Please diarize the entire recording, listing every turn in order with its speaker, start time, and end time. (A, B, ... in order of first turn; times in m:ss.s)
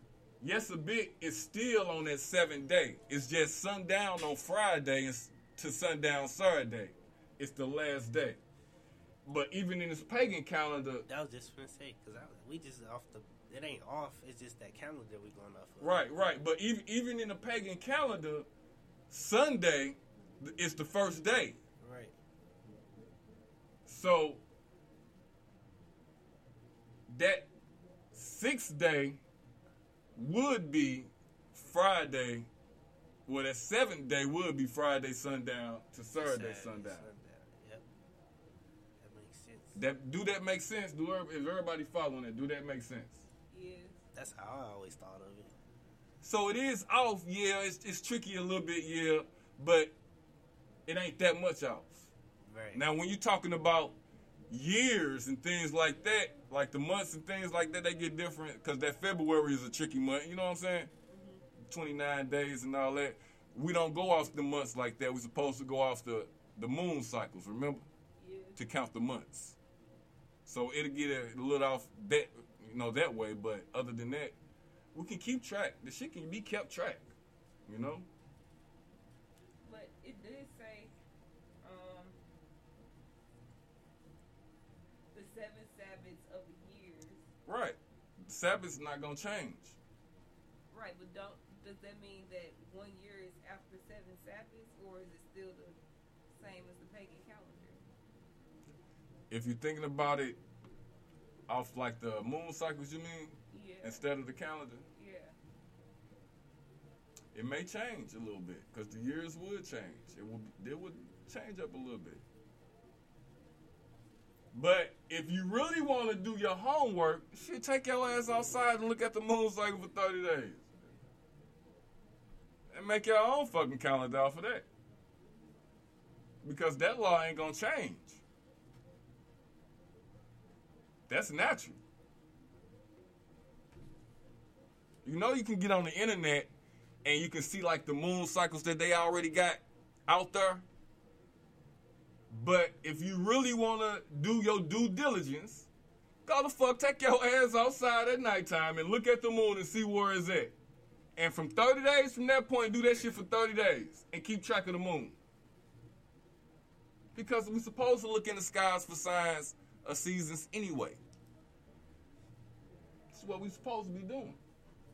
0:00.4-0:08.4 A
0:09.2-0:11.0 A
0:11.1-0:16.1 B
0:15.8-0:18.5 A
0:19.1-0:21.6 A
0:21.8-0:22.2 B
0:23.9-0:24.4 A
0:27.1-0:27.5 A
0:28.1-0:29.2 A
0:30.2-0:32.5 A
0:33.3-0:37.1 A
0:36.2-0:37.8 B
0:39.0-0:39.8 B
0:39.7-0:43.2 A
0:43.5-0:44.0 C
0:44.1-0:45.6 B
0:46.2-0:49.9 A
0:50.9-0:52.1 A
0:52.4-0:52.8 B
0:52.7-0:54.0 A
0:54.5-1:00.9 A
1:01.1-1:01.4 C
1:01.7-1:07.8 A
1:08.2-1:08.6 C
1:08.6-1:09.6 A
1:10.4-1:14.4 A
1:14.9-1:17.1 A
1:17.7-1:18.1 A
1:19.6-1:21.0 C
1:21.6-1:22.2 C
1:25.1-1:27.2 C
1:27.4-1:29.8 A
1:30.7-1:35.8 C
1:36.3-1:37.8 C
1:39.3-1:40.4 A
1:41.5-1:44.8 A
1:43.5-1:44.1 C
1:44.9-1:45.3 C
1:47.3-1:52.2 A
1:54.5-2:00.9 A
2:02.7-2:04.6 A
2:06.4-2:08.2 A
2:11.1-2:11.8 A
2:15.0-2:16.5 A
2:17.0-2:20.6 A
2:22.3-2:25.7 A
2:26.2-2:30.5 A
2:31.2-2:35.2 A
2:37.1-2:41.0 A
2:43.1-2:44.4 A